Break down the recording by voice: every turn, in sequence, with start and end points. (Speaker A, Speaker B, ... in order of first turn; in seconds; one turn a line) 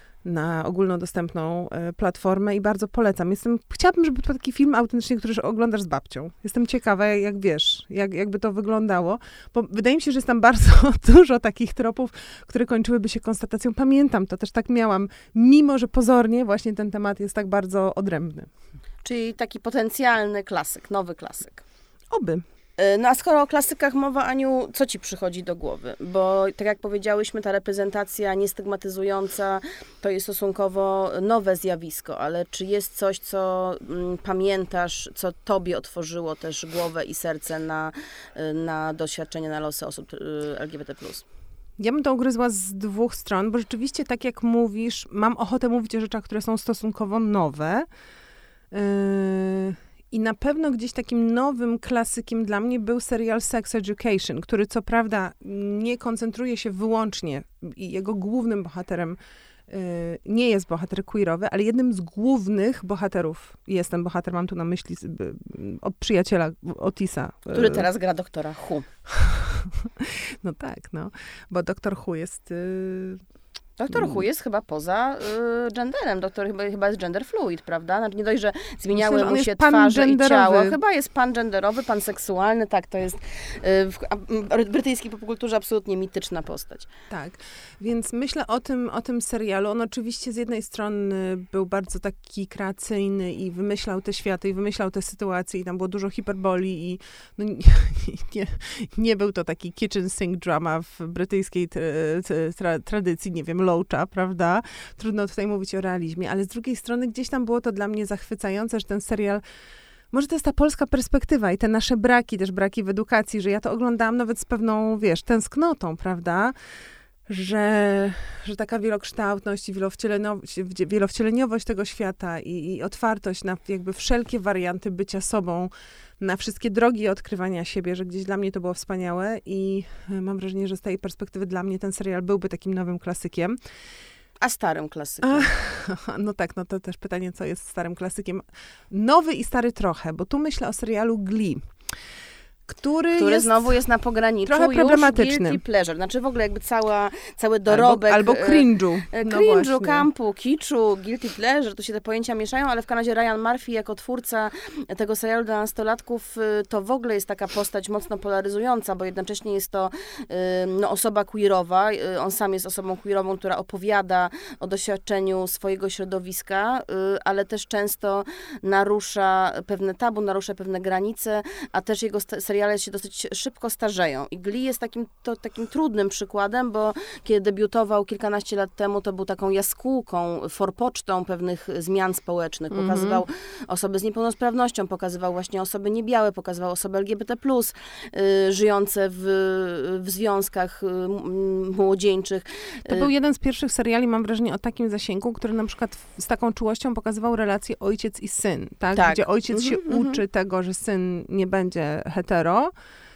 Speaker A: 0.2-18.5
Speaker B: 19.0-21.6
Speaker A: 22.1-22.4
Speaker B: 22.8-41.2
Speaker A: 41.8-47.9
Speaker A: 48.7-67.8
Speaker B: 67.5-68.9
Speaker A: 69.1-73.2
Speaker B: 73.8-86.9
Speaker A: 73.9-74.2
Speaker A: 79.0-80.8
Speaker A: 87.1-109.4
Speaker A: 110.1-116.5
Speaker A: 117.3-133.6
Speaker B: 134.4-135.5
Speaker A: 135.2-141.7
Speaker A: 142.7-143.8
Speaker B: 143.1-193.1
Speaker A: 144.5-145.6
Speaker A: 147.7-150.1
Speaker A: 182.7-183.2
Speaker A: 192.9-202.7
Speaker B: 198.9-200.2